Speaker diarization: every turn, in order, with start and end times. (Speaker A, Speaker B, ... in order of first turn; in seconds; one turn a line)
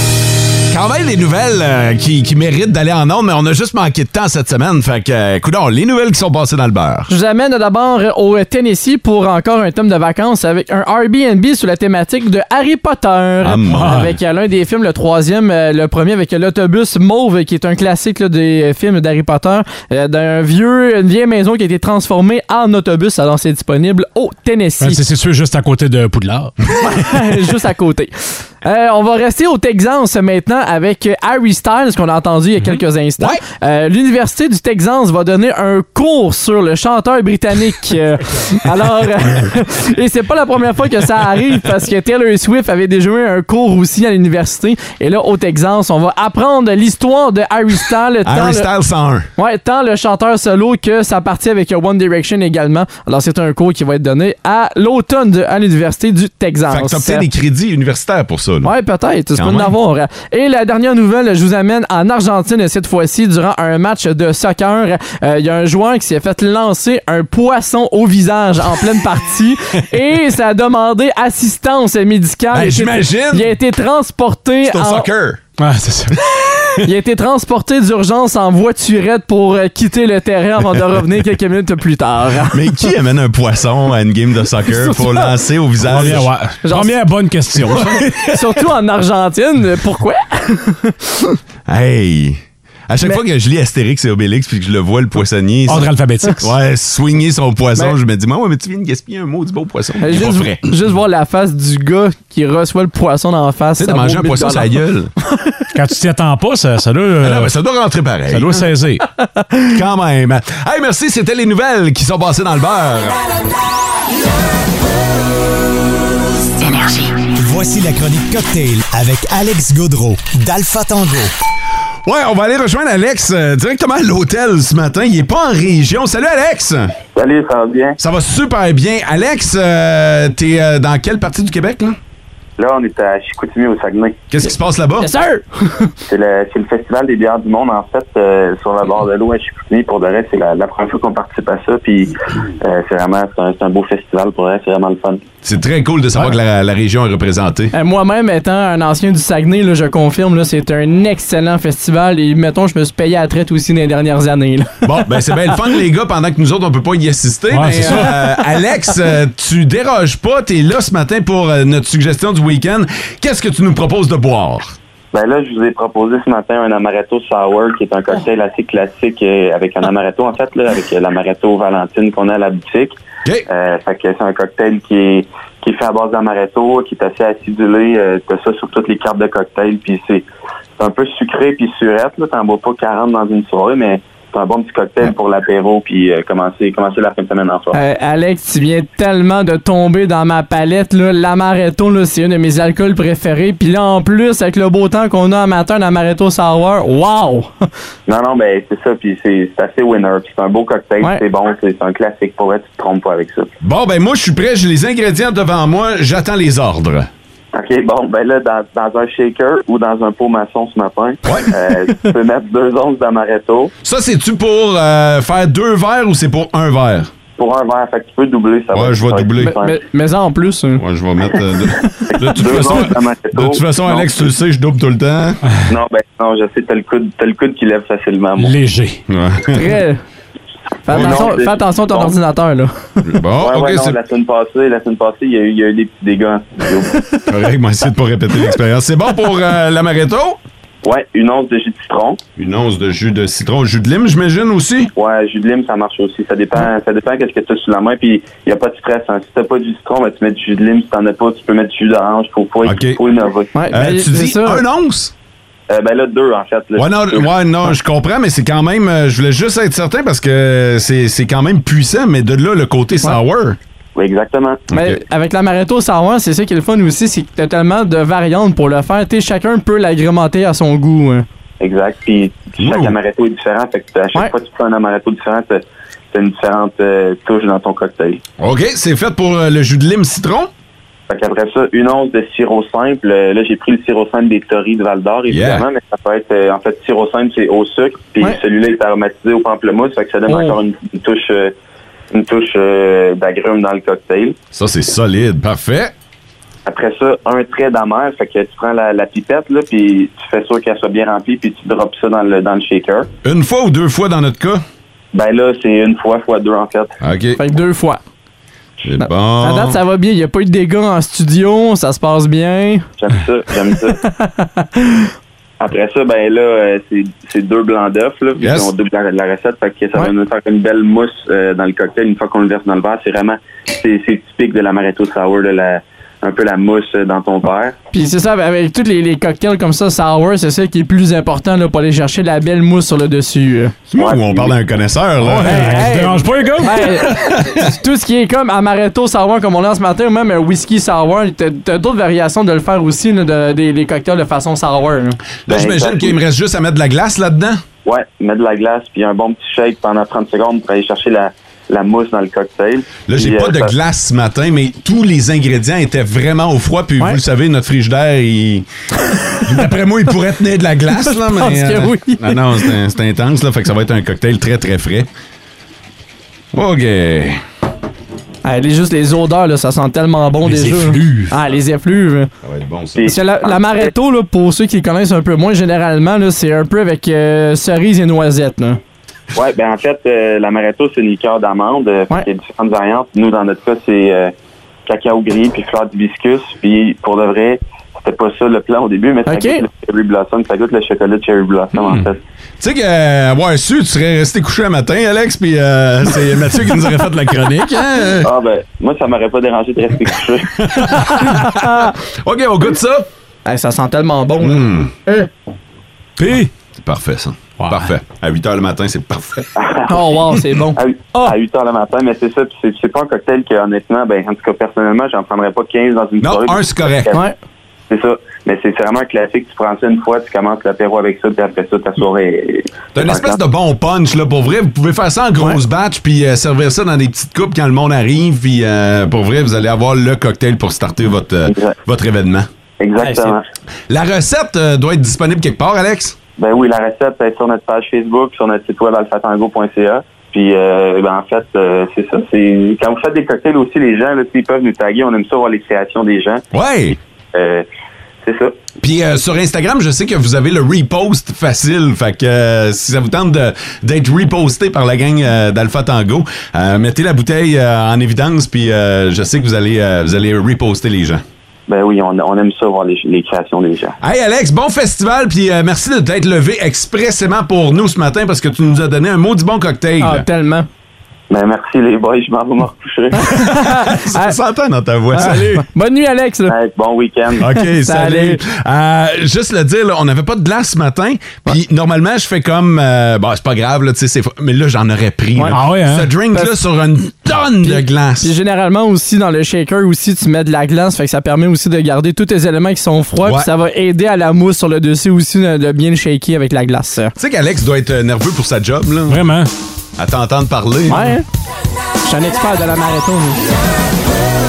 Speaker A: 0.7-7.1
Speaker B: 7.1-25.0
Speaker A: 13.4-14.1
Speaker C: 13.7-14.1
Speaker C: 24.8-26.6
Speaker B: 26.8-48.7
Speaker A: 48.2-49.3
Speaker B: 49.4-57.3
Speaker A: 56.7-58.7
Speaker B: 58.6-75.1
Speaker A: 59.4-59.8
Speaker A: 72.5-73.5
Speaker A: 74.6-75.4
Speaker C: 75.6-76.2
Speaker A: 76.6-76.8
Speaker B: 76.8-82.8
Speaker A: 82.5-86.3
Speaker B: 84.7-85.3
Speaker C: 85.9-88.1
Speaker B: 86.6-87.0
Speaker A: 87.7-88.5
Speaker B: 88.2-91.4
Speaker A: 91.7-100.7
Speaker C: 95.7-96.5
Speaker B: 100.0-104.8
Speaker A: 103.8-105.1
Speaker C: 105.7-107.5
Speaker A: 107.2-108.6
Speaker C: 108.3-109.0
Speaker A: 109.7-113.2
Speaker D: 117.4-121.2
Speaker A: 118.2-121.0
Speaker A: 122.0-127.0
Speaker E: 127.2-128.0
Speaker A: 128.0-132.0
Speaker E: 132.6-134.2
Speaker A: 134.3-135.1
Speaker B: 135.0-135.9
Speaker E: 136.1-145.2
Speaker A: 145.4-147.7
Speaker B: 147.7-155.5
Speaker A: 154.8-164.8
Speaker C: 157.5-158.2
Speaker E: 165.1-180.2
Speaker E: 180.8-187.8
Speaker B: 187.7-197.7
Speaker E: 198.1-203.5
Speaker A: 203.6-207.1
Speaker E: 207.5-213.7
Speaker A: 211.2-211.6
Speaker A: 213.8-217.1
Speaker E: 217.4-219.8
Speaker A: 218.7-219.6
Speaker B: 219.4-220.8
Speaker A: 220.8-225.4
Speaker E: 222.1-224.1
Speaker E: 225.7-228.5
Speaker C: 228.4-229.0
Speaker A: 229.1-229.7
Speaker B: 229.5-230.0
Speaker B: 230.9-232.7
Speaker E: 230.9-232.2
Speaker A: 230.9-231.3
Speaker A: 233.0-234.0
Speaker E: 233.3-236.9
Speaker A: 237.3-240.4
Speaker E: 240.8-242.2
Speaker A: 242.4-244.9
Speaker E: 244.9-253.6
Speaker A: 252.6-253.0
Speaker B: 253.5-254.6
Speaker A: 253.7-255.1
Speaker E: 255.7-257.3
Speaker A: 256.8-263.6
Speaker E: 264.0-264.7
Speaker A: 264.7-265.0
Speaker B: 264.7-271.3
Speaker E: 271.6-278.2
Speaker A: 272.6-273.0
Speaker A: 278.4-280.5
Speaker E: 281.1-291.5
Speaker A: 285.3-285.6
Speaker B: 290.3-290.6
Speaker E: 292.1-294.4
Speaker A: 294.5-295.9
Speaker E: 296.7-303.1
Speaker A: 303.2-304.6
Speaker E: 305.1-307.0
Speaker A: 307.0-307.4
Speaker B: 307.4-308.0
Speaker A: 308.8-309.8
Speaker B: 309.0-312.9
Speaker E: 313.0-314.0
Speaker B: 314.0-315.1
Speaker E: 315.6-327.8
Speaker A: 318.4-318.7
Speaker B: 327.9-333.8
Speaker A: 333.9-336.0
Speaker E: 333.9-334.6
Speaker C: 335.2-336.8
Speaker B: 335.4-345.2
Speaker A: 336.7-337.7
Speaker A: 345.5-347.6
Speaker E: 345.5-346.2
Speaker E: 347.9-353.7
Speaker A: 353.1-358.7
Speaker A: 359.4-365.1
Speaker B: 361.1-362.7
Speaker A: 366.5-367.4
Speaker B: 368.4-372.3
Speaker C: 370.4-371.3
Speaker A: 372.4-373.2
Speaker E: 373.0-373.9
Speaker B: 373.0-378.8
Speaker E: 379.3-384.3
Speaker E: 384.9-392.2
Speaker B: 389.3-389.6
Speaker A: 392.6-398.3
Speaker E: 398.2-400.6
Speaker A: 400.6-403.1
Speaker B: 401.1-401.9
Speaker B: 403.5-405.2
Speaker A: 404.4-404.9
Speaker C: 406.2-406.5
Speaker A: 406.7-409.5
Speaker C: 407.6-407.9
Speaker E: 409.6-410.0
Speaker B: 409.9-411.4
Speaker E: 410.8-417.2
Speaker A: 416.2-417.2
Speaker E: 417.9-423.4
Speaker A: 422.9-432.5
Speaker E: 431.5-431.8
Speaker E: 432.8-433.4
Speaker A: 433.9-436.2
Speaker E: 436.4-446.4
Speaker A: 446.5-447.0
Speaker E: 447.3-447.7
Speaker E: 448.2-448.6
Speaker A: 448.8-461.2
Speaker E: 461.7-464.0
Speaker A: 464.0-470.3
Speaker B: 470.0-470.7
Speaker E: 471.3-473.3
Speaker B: 473.2-474.4
Speaker A: 473.3-475.6
Speaker B: 475.1-476.6
Speaker E: 476.5-477.5
Speaker A: 477.4-488.3
Speaker B: 477.6-478.4
Speaker C: 485.5-486.1
Speaker B: 487.7-497.1
Speaker A: 493.2-493.5
Speaker A: 497.2-499.2
Speaker C: 499.1-499.5
Speaker A: 500.0-501.2
Speaker B: 500.9-501.2
Speaker B: 502.1-503.4